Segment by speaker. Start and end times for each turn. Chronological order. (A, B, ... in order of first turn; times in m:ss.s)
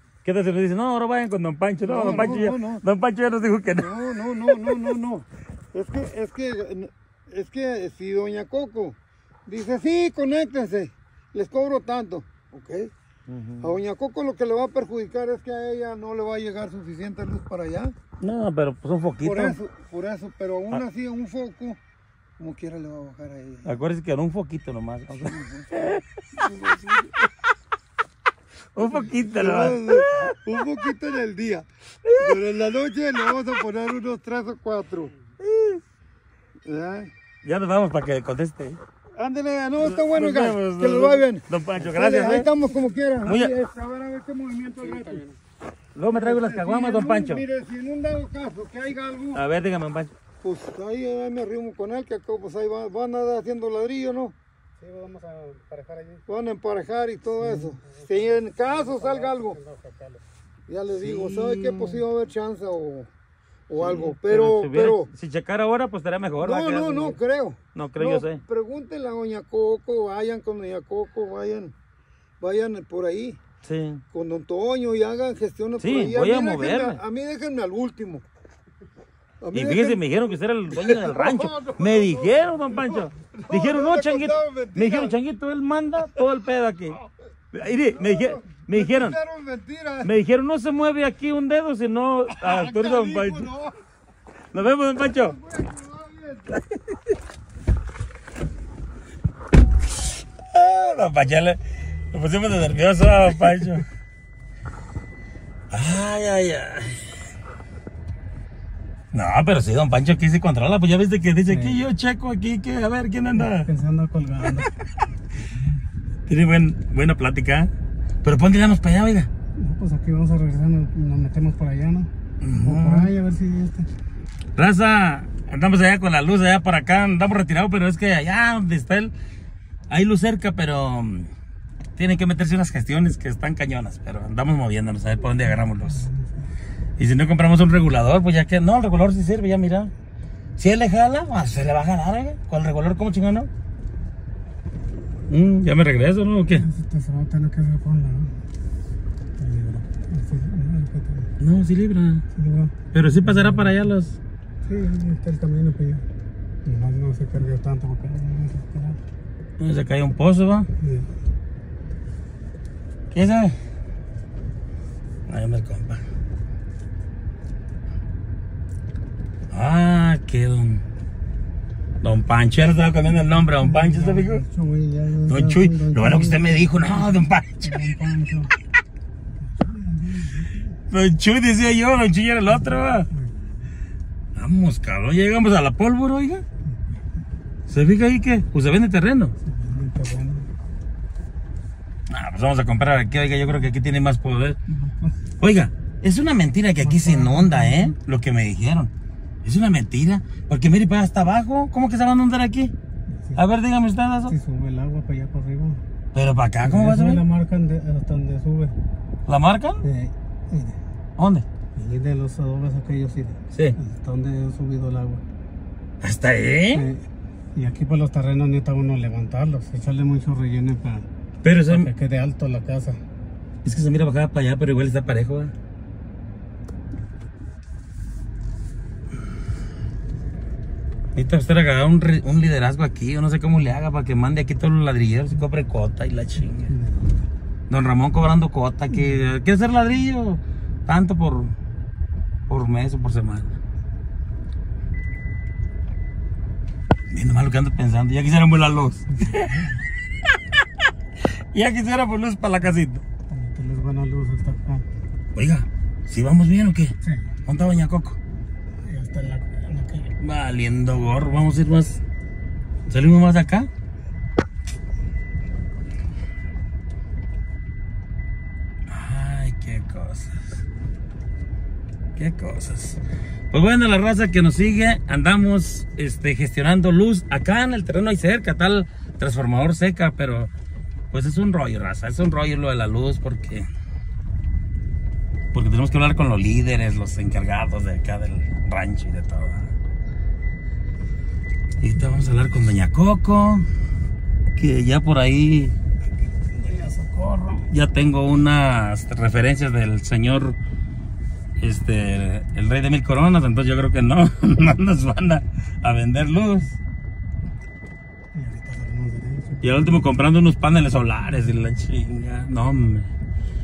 0:00.2-0:04.9 A
0:01.8-0:02.8 B
0:03.7-0:12.9 B
0:13.3-0:13.7 A
0:13.6-0:18.0 B
0:18.2-0:19.6 A
0:19.2-0:21.8 B
0:22.4-0:23.8 B
0:23.6-0:26.2 A
0:25.1-0:27.2 B
0:28.7-0:30.4 A
0:28.8-0:35.1 B
0:32.0-0:32.4 A
0:35.4-0:35.8 A
0:36.6-0:37.1 B
0:37.4-0:38.8 A
0:39.2-0:45.3 B
0:39.8-0:42.5 A
0:43.2-0:43.5 A
0:44.8-0:45.3 C
0:46.0-0:47.4 A
0:46.1-0:49.4 B
0:49.3-0:50.1 A
0:50.4-0:54.4 B
0:54.8-0:56.2 C
0:56.3-0:59.6 B
0:57.4-1:00.2 C
1:00.7-1:03.1 B
1:00.9-1:02.0 A
1:03.7-1:05.1 B
1:03.8-1:07.2 A
1:06.4-1:11.7 B
1:07.7-1:08.4 A
1:12.4-1:13.4 B
1:13.6-1:14.0 A
1:14.1-1:18.2 B
1:15.8-1:17.0 A
1:19.4-1:20.0 B
1:19.5-1:27.0 A
1:20.7-1:25.2 B
1:27.5-1:29.2 A
1:27.7-1:30.1 B
1:30.0-1:33.5 A
1:32.3-1:33.8 B
1:34.5-1:35.4 A
1:35.0-1:36.6 B
1:40.4-1:43.9 A
1:45.7-1:47.2 A
1:49.1-1:53.7 A
1:51.5-1:51.8 C
1:53.3-1:54.7 C
1:55.4-1:55.8 C
1:56.3-1:57.7 A
1:58.2-1:59.3 A
1:59.6-2:03.9 C
2:02.4-2:03.1 A
2:04.6-2:09.1 A
2:09.9-2:11.3 A
2:12.0-2:16.1 A
2:15.9-2:16.5 C
2:17.0-2:19.9 A
2:20.6-2:23.5 A
2:25.3-2:26.7 A
2:26.6-2:28.4 C
2:29.4-2:31.3 C
2:31.4-2:32.2 A
2:32.3-2:32.7 C
2:32.9-2:34.2 A
2:34.6-2:36.1 C
2:36.6-2:39.0 C
2:39.6-2:40.7 A
2:40.8-2:41.1 C
2:43.1-2:43.6 A
2:45.3-2:46.0 A
2:49.5-2:50.8 A
2:52.0-2:54.4 A
2:53.6-2:57.0 C
2:55.2-2:58.0 A
2:57.6-2:58.5 C
2:59.4-3:00.8 C
3:00.9-3:03.1 A
3:03.1-3:03.5 C
3:04.3-3:06.4 A
3:07.7-3:09.3 A
3:09.4-3:10.5 C
3:12.1-3:14.6 A
3:14.8-3:15.1 C
3:15.4-3:18.9 A
3:16.8-3:17.9 C
3:19.4-3:22.7 A
3:23.1-3:23.4 C
3:23.3-3:24.4 A
3:24.3-3:25.8 C
3:26.1-3:27.2 A
3:26.6-3:28.8 C
3:29.3-3:29.8 A
3:29.8-3:30.8 C
3:31.2-3:31.4 A
3:31.8-3:35.2 C
3:33.5-3:33.8 A
3:36.0-3:36.9 A
3:36.7-3:41.1 C
3:41.4-3:41.9 A
3:41.7-3:43.0 C
3:43.6-3:45.5 A
3:51.1-3:56.7 A
3:56.7-3:57.2 C
3:57.7-4:01.5 A
4:02.5-4:03.6 A
4:07.1-4:09.7 A
4:09.2-4:09.7 C
4:11.2-4:13.0 A
4:13.3-4:14.8 C
4:15.3-4:16.9 A
4:17.0-4:17.3 C
4:17.4-4:18.2 A
4:18.8-4:20.1 C
4:20.2-4:22.0 A
4:22.9-4:23.7 A
4:28.9-4:30.6 A
4:32.2-4:40.5 A
4:41.1-4:43.7 A
4:45.5-4:49.7 A
4:51.8-4:53.7 A
4:54.6-4:55.8 A
4:56.6-4:57.5 C
4:57.5-5:00.6 A
5:01.6-5:06.8 A
5:08.3-5:09.8 C
5:09.6-5:13.1 A